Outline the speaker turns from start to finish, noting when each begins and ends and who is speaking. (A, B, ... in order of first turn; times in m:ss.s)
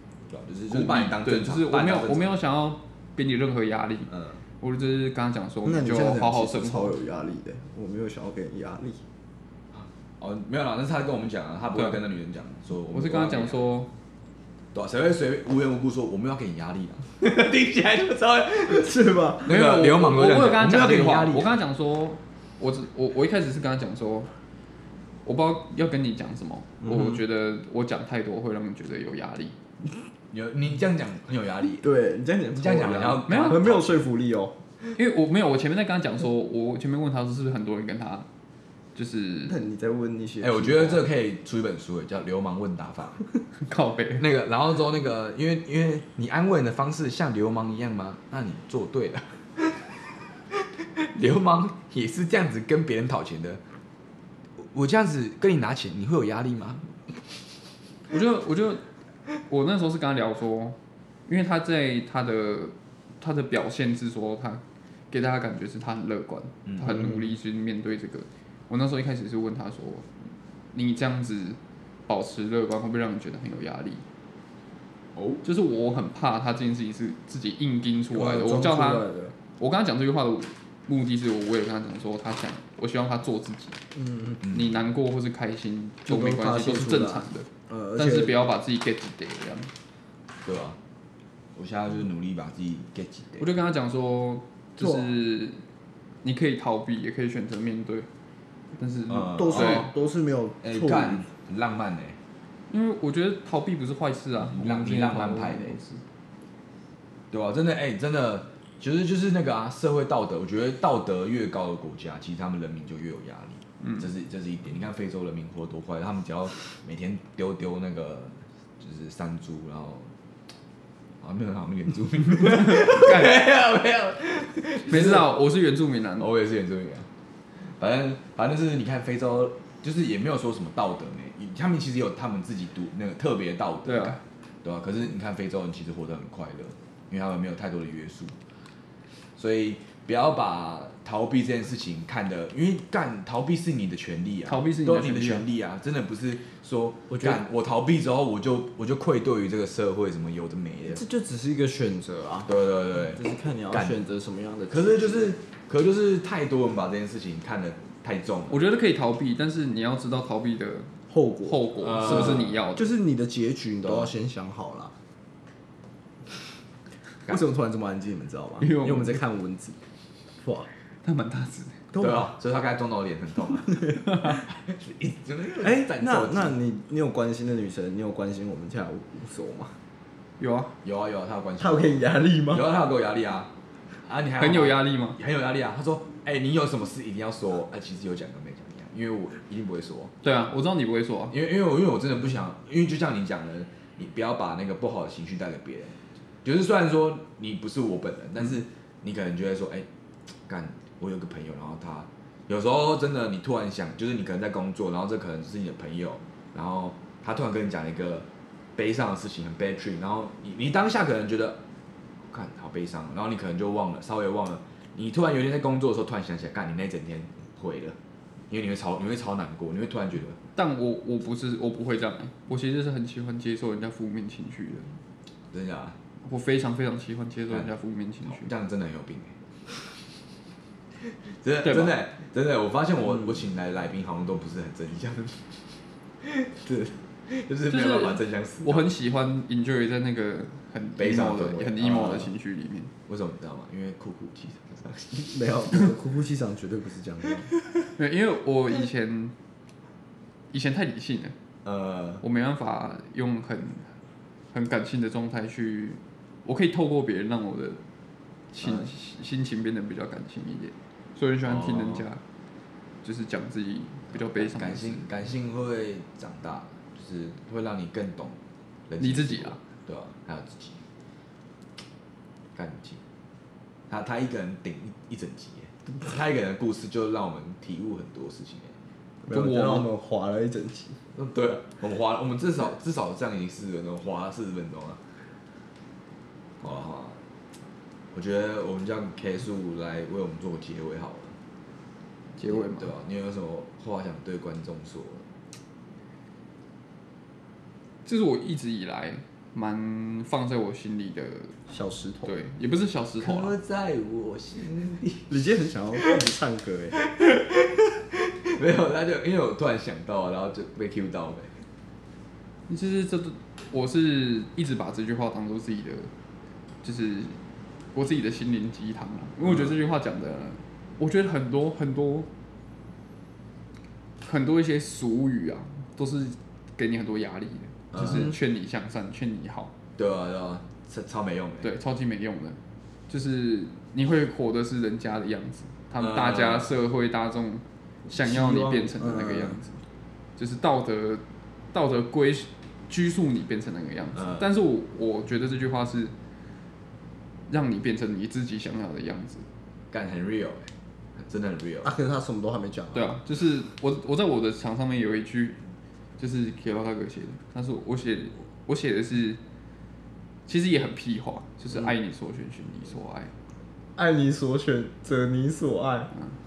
0:00.3-0:02.3 A
0:00.7-0:06.9 B
0:04.1-0:04.4 A
0:05.6-0:09.0 C
0:09.7-0:13.6 A
0:12.9-0:13.9 B
0:14.7-0:21.5 A
0:18.7-0:19.6 C
0:19.5-0:24.3 B
0:25.2-0:29.6 B
0:30.3-0:31.9 A
0:31.8-0:34.6 C
0:32.6-0:34.0 A
0:33.3-0:33.6 B
0:35.0-0:38.3 B
0:39.0-0:39.6 B
0:39.5-0:41.0 C
0:40.4-0:43.2 A
0:43.6-0:44.2 B
0:44.2-0:50.0 A
0:50.5-0:53.6 A
0:54.6-0:56.9 A
0:58.1-0:58.8 B
0:59.5-1:10.1 B
1:10.7-1:14.0 B
1:15.4-1:19.1 B
1:18.1-1:19.4 C
1:19.6-1:23.8 B
1:24.0-1:24.3 C
1:24.4-1:24.8 A
1:24.4-1:29.7 B
1:26.1-1:28.4 C
1:30.4-1:30.8 A
1:31.6-1:33.5 A
1:33.4-1:35.6 B
1:34.8-1:35.1 C
1:36.2-1:38.1 B
1:38.8-1:39.9 B
1:39.1-1:39.9 A
1:39.3-1:41.3 C
1:40.6-1:42.2 A
1:42.7-1:46.0 B
1:44.4-1:45.8 A
1:47.3-2:00.1 A
1:53.8-1:54.1 B
2:01.2-2:05.3 A
2:02.4-2:03.4 B
2:04.9-2:06.3 B
2:06.2-2:07.1 A
2:07.6-2:18.4 A
2:13.9-2:14.2 B
2:19.4-2:31.0 A
2:24.5-2:25.5 B
2:27.1-2:27.4 C
2:30.9-2:32.5 C
2:32.5-2:34.0 A
2:33.1-2:35.4 C
2:34.7-2:38.6 A
2:38.5-2:40.9 B
2:41.1-2:44.9 C
2:41.4-2:42.9 B
2:41.8-2:42.6 A
2:43.8-2:44.1 A
2:47.3-2:49.8 C
2:48.6-2:49.2 B
2:50.4-2:50.7 C
2:51.0-2:51.8 B
2:51.9-2:52.2 C
2:52.0-2:56.6 A
2:55.6-2:59.8 C
3:00.4-3:00.7 B
3:00.8-3:03.5 A
3:01.6-3:02.6 C
3:04.0-3:10.1 A
3:04.4-3:05.2 B
3:10.2-3:11.3 B
3:11.3-3:19.9 A
3:20.5-3:31.6 A
3:32.3-3:38.0 A
3:38.5-3:40.4 A
3:40.6-3:45.0 B
3:45.5-3:46.0 A
3:46.2-3:48.5 B
3:48.3-3:49.4 A
3:51.0-3:55.7 A
3:51.6-3:52.0 B
3:56.2-3:58.9 A
3:57.7-4:02.9 B
4:01.0-4:02.3 A
4:03.1-4:05.8 A
4:05.3-4:07.5 C
4:08.0-4:09.3 B
4:10.5-4:11.4 B
4:11.6-4:12.2 A
4:12.2-4:13.9 B
4:14.5-4:17.8 B
4:18.6-4:22.2 B
4:18.6-4:18.9 A
4:21.4-4:22.1 A
4:23.0-4:25.1 B
4:24.1-4:30.8 A
4:29.0-4:29.6 B
4:32.6-4:33.0 A
4:33.9-4:38.8 A
4:39.2-4:41.0 C
4:39.3-4:39.9 B
4:41.1-4:45.1 A
4:46.6-4:47.2 A
4:48.1-4:51.4 A
4:52.4-4:52.9 B
4:52.5-4:55.3 A
4:58.0-5:01.6 B
5:01.7-5:02.3 C
5:02.2-5:03.5 B
5:03.2-5:05.4 A
5:05.3-5:07.0 C
5:07.0-5:11.6 A
5:12.7-5:16.1 B
5:16.8-5:17.4 B
5:17.9-5:22.3 B
5:24.2-5:29.7 B
5:27.9-5:28.4 A
5:30.0-5:31.7 A
5:31.6-5:32.6 B
5:33.1-5:39.7 B
5:36.0-5:36.8 A
5:38.1-5:39.6 C
5:40.4-5:46.1 B
5:44.2-5:44.5 A
5:47.5-5:49.5 B
5:49.9-5:51.9 A
5:51.8-5:53.2 C
5:52.9-5:55.6 B
5:56.2-5:59.4 B
6:00.5-6:03.3 B
6:04.0-6:06.1 C